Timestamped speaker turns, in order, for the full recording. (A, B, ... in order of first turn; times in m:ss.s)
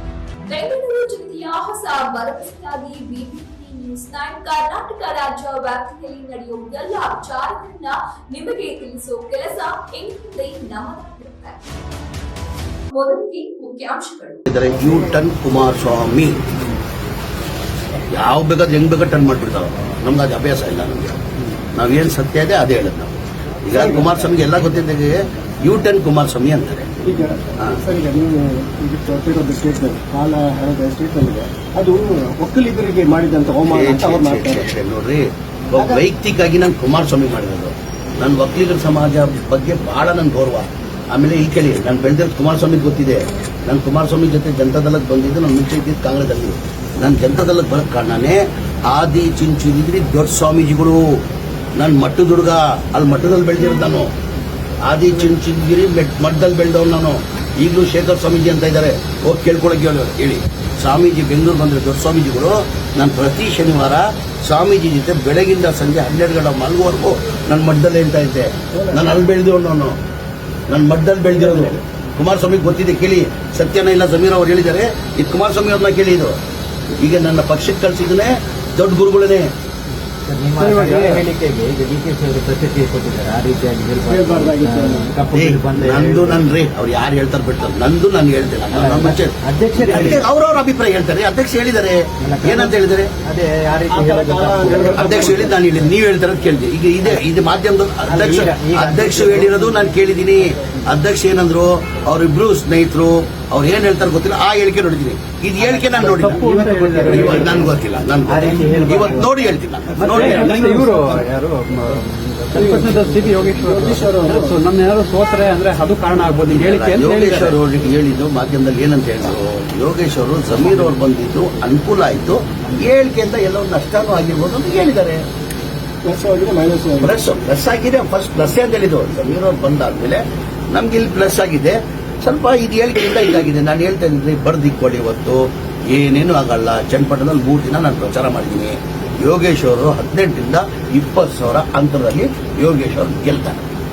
0:00.5-0:11.6 A
0:12.9-0:14.4 A
0:14.5-0:16.5 B
0:18.1-0:26.9 B
0:23.7-0:24.1 C
0:27.0-0:34.6 C
0:33.7-0:51.2 B
0:35.8-0:36.0 C
0:51.8-0:54.1 B
0:54.8-1:10.0 B
1:08.7-1:09.1 C
1:10.7-1:16.3 B
1:11.4-1:11.8 C
1:17.0-1:19.5 B
1:20.3-1:26.5 D
1:20.6-1:21.3 E
1:24.0-1:25.1 C
1:25.3-1:33.1 B
1:28.7-1:30.2 D
1:32.2-1:35.9 D
1:33.9-1:35.6 C
1:34.6-1:50.6 B
1:38.0-1:39.9 D
1:45.6-1:47.4 D
1:46.0-1:47.7 E
1:48.3-1:49.4 D
1:50.0-1:57.6 E
1:50.2-1:50.7 D
1:50.3-1:51.2 C
1:52.5-1:53.4 D
1:52.6-1:52.9 C
1:53.5-1:54.6 C
1:56.3-2:05.2 B
2:06.0-2:07.1 C
2:07.0-2:23.6 B